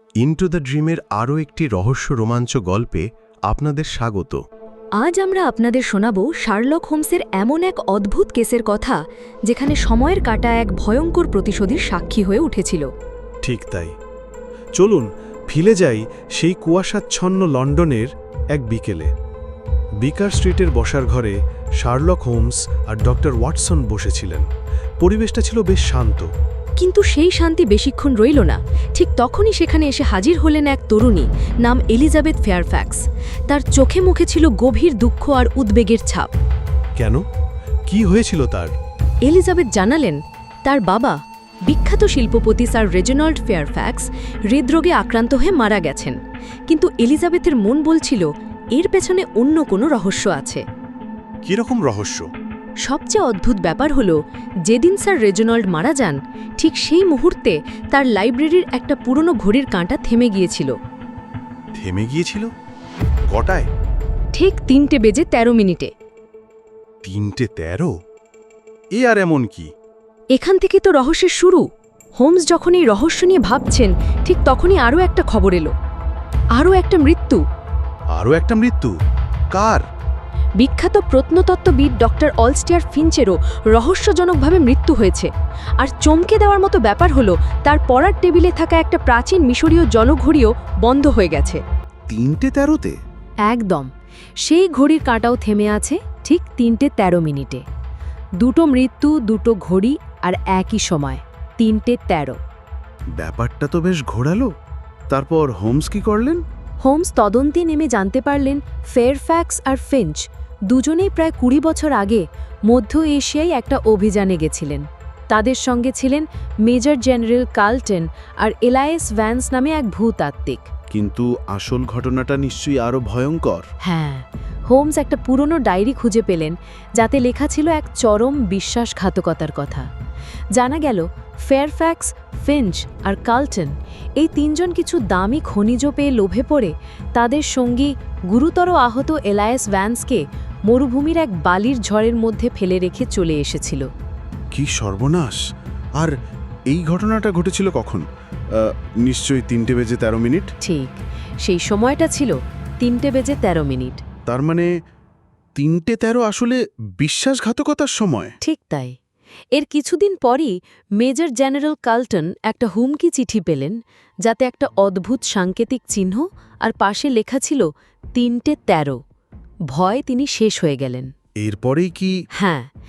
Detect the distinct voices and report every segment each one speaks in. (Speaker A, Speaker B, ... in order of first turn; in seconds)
Speaker A: 0.2-4.4
Speaker B: 0.3-1.5, 13.4-13.9, 14.8-19.1, 20.0-24.5, 25.0-26.3, 37.9-38.7, 51.4-52.3, 61.8-62.5, 63.3-63.7, 67.0-67.9, 68.9-69.7, 78.1-78.9, 79.5-79.8, 92.1-93.0, 103.2-104.5, 105.1-106.4, 120.9-123.6, 144.5-145.4, 146.7-150.5, 154.3-154.7, 155.6-158.3, 171.4-172.1
Speaker C: 5.0-12.9, 26.8-36.3, 39.2-50.6, 52.8-60.8, 64.3-65.9, 70.3-71.6, 72.2-75.7, 76.5-77.4, 80.6-91.6, 93.5-93.9, 94.4-97.6, 98.4-102.4, 106.8-120.7, 123.8-129.9, 130.5-143.9, 150.6-154.0, 158.4-159.0, 159.5-169.0, 169.7-171.1, 172.4-172.7